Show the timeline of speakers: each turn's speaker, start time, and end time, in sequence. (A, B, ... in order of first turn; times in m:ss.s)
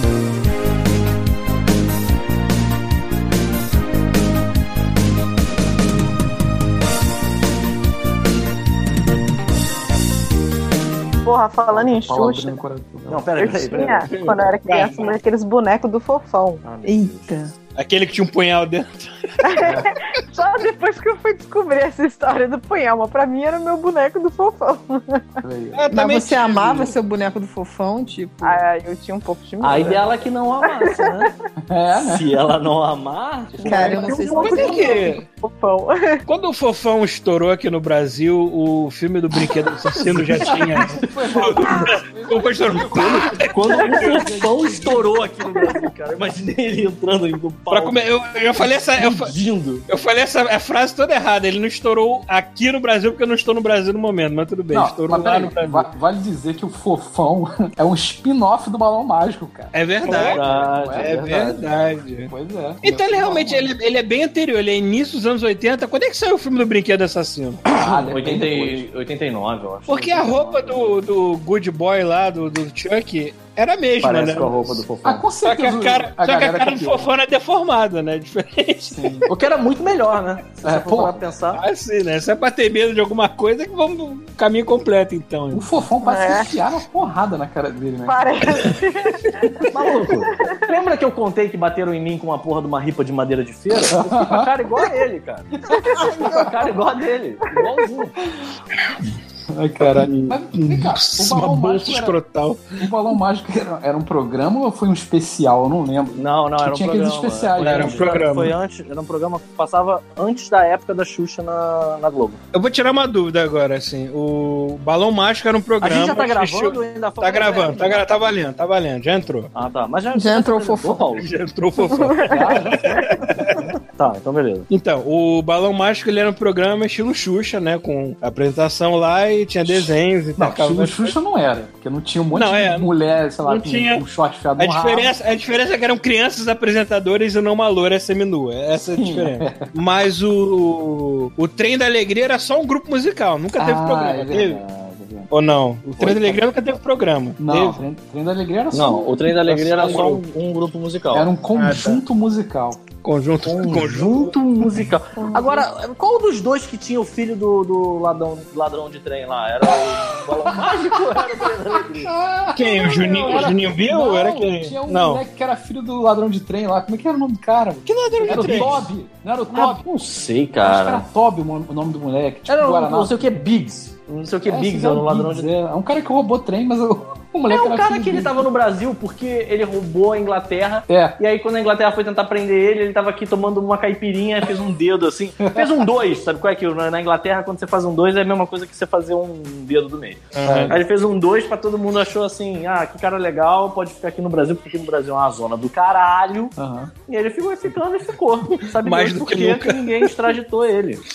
0:11.2-0:12.6 A
0:11.7-0:13.7 B
0:13.1-0:14.1 C
0:13.4-0:16.7 A
0:14.1-0:15.2 D
0:16.6-0:17.4 C
0:16.8-0:17.5 E
0:17.8-0:19.7 D
0:19.4-0:25.3 A
0:19.6-0:19.9 B
0:25.4-0:25.8 B
0:25.7-0:27.0 D
0:25.9-0:28.6 E
0:28.4-0:30.1 A
0:29.6-0:31.3 C
0:30.7-0:31.2 A
0:31.6-0:32.4 B
0:32.0-0:35.0 C
0:33.5-0:35.2 B
0:33.6-0:36.2 A
0:33.6-0:34.9 E
0:34.6-0:35.2 D
0:36.3-0:44.3 D
0:40.0-0:40.9 C
0:40.2-0:45.3 B
0:42.9-0:48.0 C
0:47.7-0:49.3 D
0:49.0-0:49.8 C
0:49.9-0:55.9 D
0:54.7-1:01.6 B
0:59.7-1:00.4 D
1:00.0-1:01.6 C
1:01.0-1:02.3 D
1:02.2-1:03.7 B
1:02.8-1:07.6 D
1:07.7-1:10.6 C
1:07.7-1:08.9 B
1:09.9-1:14.8 D
1:10.1-1:11.0 B
1:14.0-1:15.2 C
1:15.0-1:17.1 B
1:15.4-1:19.1 D
1:18.9-1:19.3 B
1:19.3-1:21.6 C
1:20.6-1:21.3 B
1:21.5-1:25.7 D
1:25.5-1:28.4 B
1:26.0-1:26.5 A
1:28.1-1:30.8 A
1:29.7-1:35.5 C
1:33.9-1:34.5 B
1:35.7-1:36.7 A
1:35.7-1:36.1 B
1:36.2-1:38.2 C
1:39.5-1:42.2 B
1:39.8-1:42.8 D
1:42.8-1:48.0 B
1:46.2-1:52.4 C
1:47.6-1:48.5 D
1:52.5-1:59.5 D
1:55.8-1:58.4 C
1:59.5-2:01.3 C
2:00.1-2:01.1 E
2:01.2-2:03.7 D
2:02.3-2:03.2 B
2:04.0-2:04.7 C
2:04.7-2:11.1 D
2:09.7-2:15.1 B
2:12.3-2:12.9 D
2:13.4-2:14.0 D
2:14.6-2:24.6 D
2:19.0-2:19.7 B
2:23.6-2:25.3 B
2:25.3-2:27.8 D
2:26.0-2:26.4 B
2:26.0-2:26.4 C
2:27.4-2:30.2 B
2:28.7-2:31.3 C
2:29.8-2:30.2 D
2:31.1-2:32.8 B
2:31.5-2:32.0 D
2:33.0-2:34.4 D
2:33.4-2:42.2 C
2:35.2-2:35.6 A
2:40.4-2:49.8 B
2:42.5-2:45.2 D
2:47.8-2:48.9 D
2:48.3-2:48.7 C
2:49.5-2:51.1 C
2:50.6-2:53.4 B
2:52.5-2:55.5 C
2:54.5-2:58.5 B
2:57.5-3:16.5 C
3:00.9-3:01.2 B
3:05.4-3:05.8 B
3:10.3-3:10.8 D
3:10.4-3:10.8 B
3:16.6-3:16.9 B
3:17.1-3:21.0 C
3:18.8-3:20.3 D